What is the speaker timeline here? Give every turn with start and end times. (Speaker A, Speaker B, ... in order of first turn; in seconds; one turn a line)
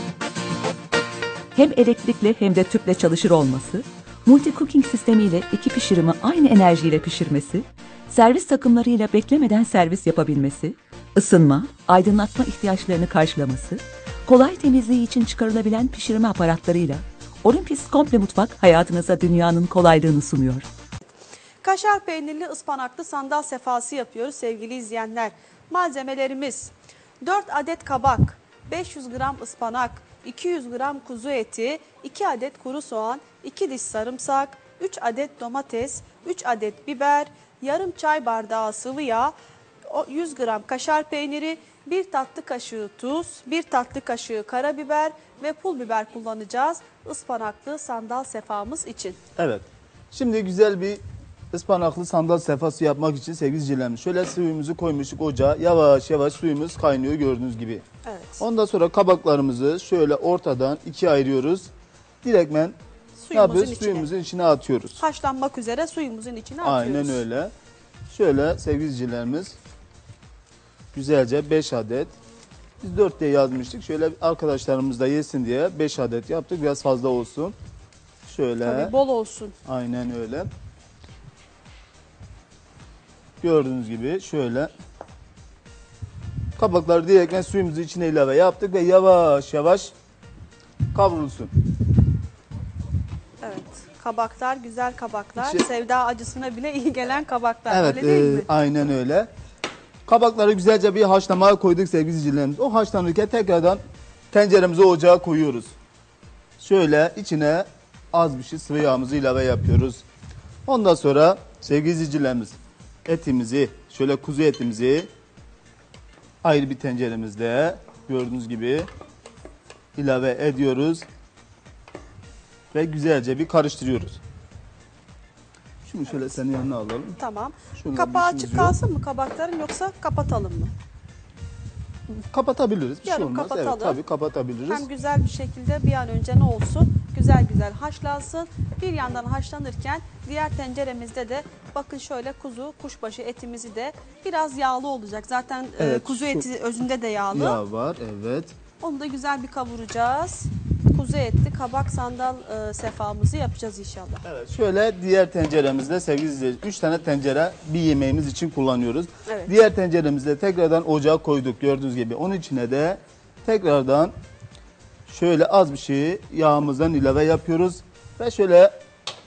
Speaker A: 1.6-20.7
Speaker B: 21.6-39.3
Speaker B: 39.9-49.2
Speaker C: 49.4-57.8
Speaker B: 58.0-58.5
Speaker C: 58.4-61.7
Speaker C: 62.2-62.8
Speaker B: 63.2-64.1
Speaker C: 63.3-65.0
Speaker B: 65.0-67.2
Speaker C: 66.6-67.5
Speaker C: 68.1-69.6
Speaker C: 70.9-72.1
Speaker C: 72.8-77.6
Speaker C: 78.3-79.0
Speaker B: 78.6-79.6
Speaker C: 79.7-80.5
Speaker C: 83.4-84.7
Speaker C: 86.6-89.9
Speaker C: 90.9-91.5
Speaker B: 93.4-98.5
Speaker C: 95.4-95.6
Speaker C: 97.7-99.3
Speaker C: 100.1-105.7
Speaker C: 106.6-110.0
Speaker C: 110.7-115.1
Speaker C: 116.4-118.9
Speaker C: 120.0-121.0
Speaker C: 122.7-124.2
Speaker C: 125.9-127.2
Speaker B: 127.2-130.7
Speaker C: 127.8-128.8
Speaker C: 132.1-134.9
Speaker B: 133.1-134.0
Speaker B: 134.7-147.6
Speaker C: 145.8-146.5
Speaker C: 147.3-148.6
Speaker B: 148.8-154.3
Speaker C: 154.2-164.1
Speaker B: 159.3-159.5
Speaker C: 165.1-168.8